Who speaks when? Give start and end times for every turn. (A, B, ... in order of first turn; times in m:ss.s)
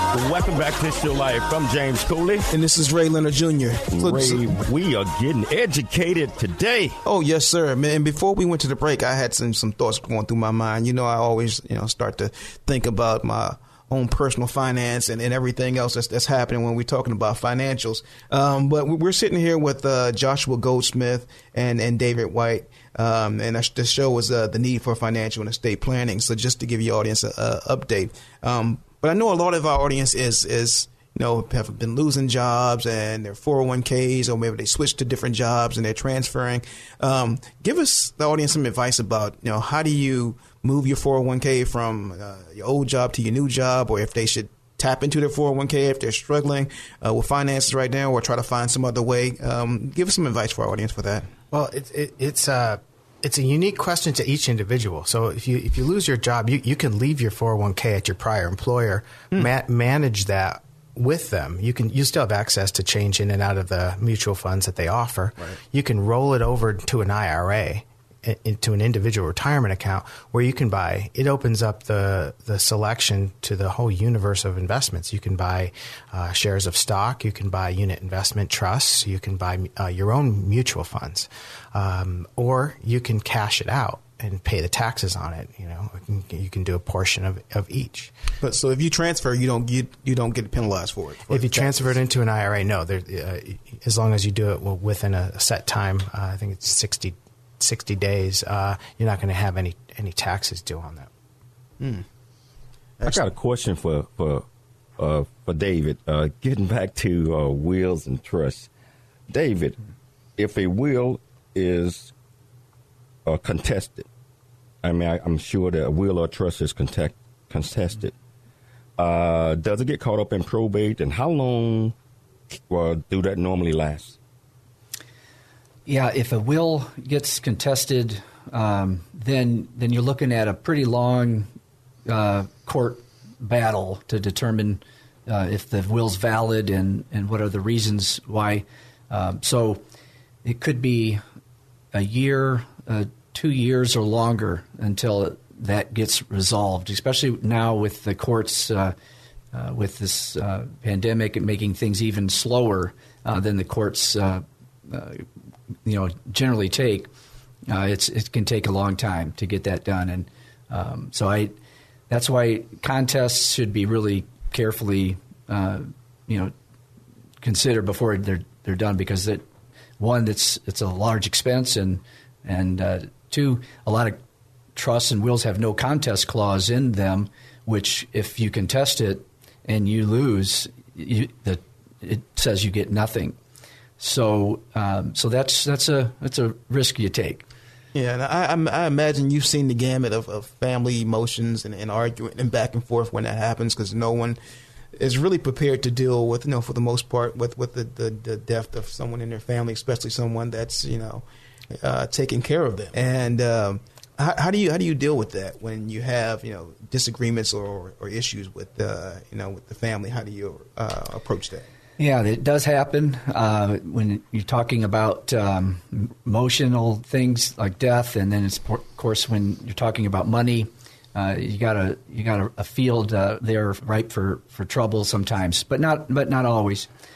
0:00.1-0:02.5 A
0:02.5-0:04.5 B
0:03.9-0:07.0 A
0:07.0-0:51.3 B
0:51.5-1:28.1 C
1:28.4-1:32.0 B
1:31.3-1:41.1 C
1:41.8-1:42.0 B
1:43.0-1:44.5 A
1:45.0-1:48.7 A
1:49.3-1:49.8 A
1:50.4-1:52.1 A
1:53.3-1:54.1 A
1:54.8-1:58.1 A
1:59.0-2:01.9 A
2:02.7-2:04.2 A
2:05.9-2:11.5 D
2:12.1-2:19.8 D
2:20.4-2:21.2 D
2:21.9-2:29.0 D
2:29.5-2:35.3 D
2:35.8-2:37.1 D
2:37.7-2:41.6 D
2:42.1-2:46.5 D
2:47.4-2:49.4 D
2:50.0-2:54.2 D
2:54.8-3:03.4 D
3:04.0-3:07.4 D
3:07.9-3:14.4 B
3:15.0-3:21.2 B
3:21.8-3:31.6 B
3:32.0-3:46.9 D